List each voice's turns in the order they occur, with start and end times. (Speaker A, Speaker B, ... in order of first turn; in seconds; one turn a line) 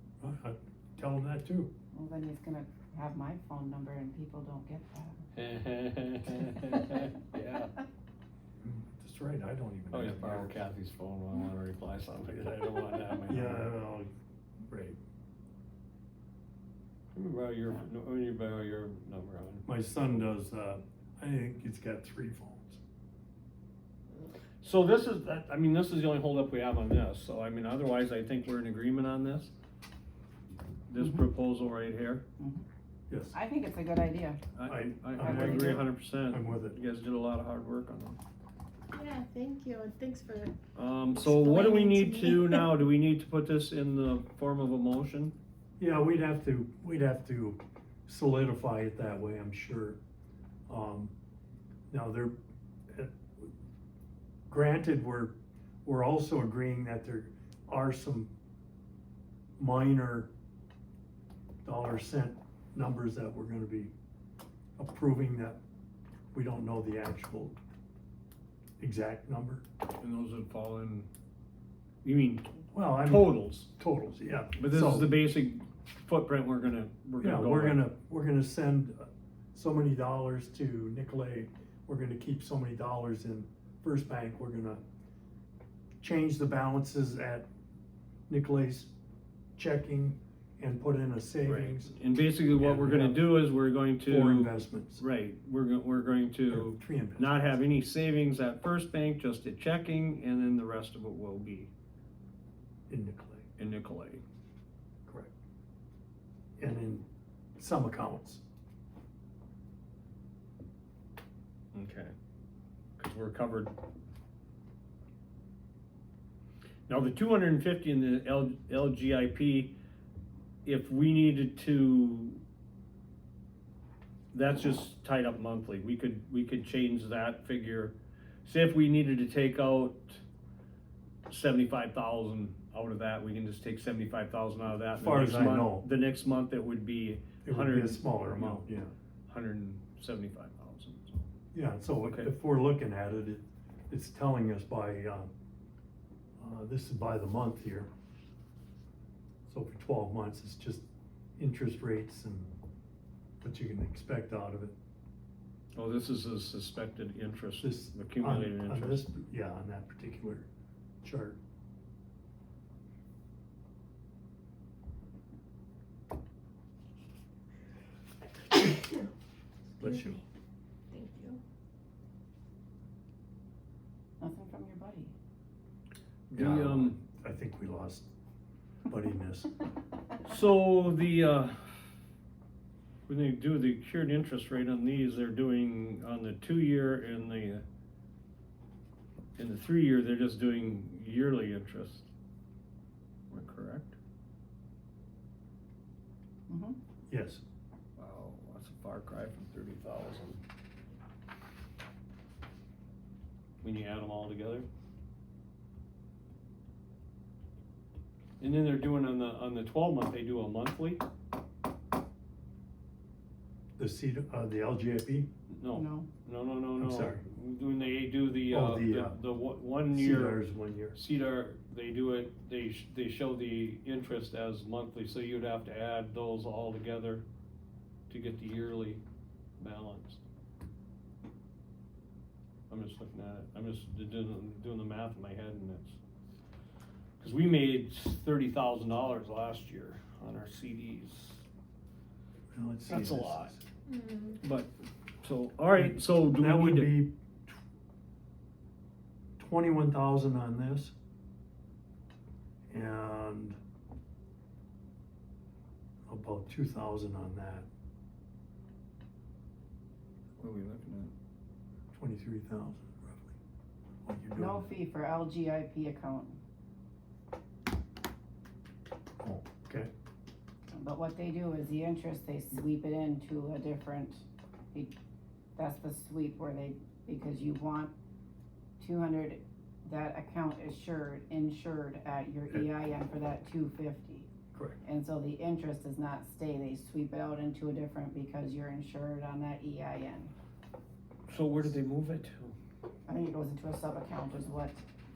Speaker A: 0.2-1.7
Speaker B: 1.9-5.2
Speaker C: 5.3-7.8
Speaker A: 8.6-10.6
Speaker C: 9.9-13.7
Speaker A: 13.3-14.1
Speaker A: 14.6-15.0
Speaker C: 17.1-19.6
Speaker A: 19.6-22.8
Speaker C: 24.6-29.5
Speaker C: 30.9-32.2
Speaker B: 30.9-31.2
Speaker B: 32.4-32.6
Speaker A: 33.1-33.4
Speaker B: 33.3-34.4
Speaker C: 34.5-38.2
Speaker A: 34.6-36.8
Speaker B: 35.2-35.7
Speaker D: 38.9-40.5
Speaker C: 40.7-45.3
Speaker D: 41.4-42.3
Speaker A: 45.8-50.0
Speaker A: 50.7-51.1
Speaker A: 51.9-52.3
Speaker A: 52.9-53.5
Speaker A: 54.5-58.3
Speaker A: 59.6-60.3
Speaker A: 61.6-63.9
Speaker A: 64.8-65.6
Speaker A: 66.3-67.6
Speaker A: 68.8-69.6
Speaker C: 70.0-71.1
Speaker C: 72.0-73.7
Speaker A: 72.7-75.1
Speaker C: 74.5-77.9
Speaker A: 77.2-84.8
Speaker A: 86.0-87.5
Speaker A: 88.3-88.9
Speaker A: 89.5-92.0
Speaker C: 91.5-101.7
Speaker A: 92.5-93.3
Speaker A: 94.0-95.0
Speaker A: 96.5-97.6
Speaker A: 102.9-103.5
Speaker C: 103.6-104.2
Speaker A: 106.6-107.0
Speaker A: 107.6-108.4
Speaker C: 111.7-112.1
Speaker C: 113.0-113.7
Speaker C: 116.9-119.8
Speaker C: 120.6-122.4
Speaker C: 124.3-130.2
Speaker C: 131.3-141.3
Speaker A: 134.9-135.8
Speaker A: 137.4-138.9
Speaker A: 141.5-145.3
Speaker C: 142.0-142.3
Speaker A: 146.4-147.9
Speaker A: 149.5-150.8
Speaker A: 151.4-152.5
Speaker A: 153.4-154.7
Speaker C: 155.7-159.1
Speaker A: 157.6-160.5
Speaker A: 161.0-161.4
Speaker A: 169.8-170.2
Speaker B: 174.2-175.1
Speaker C: 176.3-177.0
Speaker A: 176.3-178.1
Speaker A: 178.9-179.5
Speaker C: 180.2-181.9
Speaker C: 183.1-187.6
Speaker C: 189.3-192.1
Speaker C: 193.3-193.9
Speaker B: 196.5-196.8
Speaker A: 197.1-197.4
Speaker C: 198.0-200.4
Speaker C: 203.6-204.7
Speaker C: 208.4-211.0
Speaker A: 213.8-215.3
Speaker C: 215.5-227.2
Speaker B: 215.7-216.1
Speaker A: 216.8-217.2
Speaker A: 218.5-219.2
Speaker A: 219.9-221.0
Speaker C: 228.1-229.0
Speaker C: 229.6-230.2
Speaker C: 232.7-236.0
Speaker C: 237.2-241.4
Speaker A: 242.5-243.6
Speaker C: 242.9-243.5
Speaker D: 243.9-244.3
Speaker C: 244.4-244.7
Speaker C: 245.2-247.1
Speaker A: 245.7-247.5
Speaker A: 249.4-250.9
Speaker A: 252.7-253.6
Speaker A: 256.1-257.6
Speaker C: 260.4-261.1
Speaker A: 261.9-263.4
Speaker A: 264.0-264.7
Speaker B: 264.4-266.4
Speaker A: 269.2-269.9
Speaker B: 270.7-274.9
Speaker B: 275.6-277.9
Speaker B: 278.8-284.3
Speaker A: 284.5-284.8
Speaker B: 284.8-290.3
Speaker C: 291.3-292.6
Speaker B: 293.1-294.8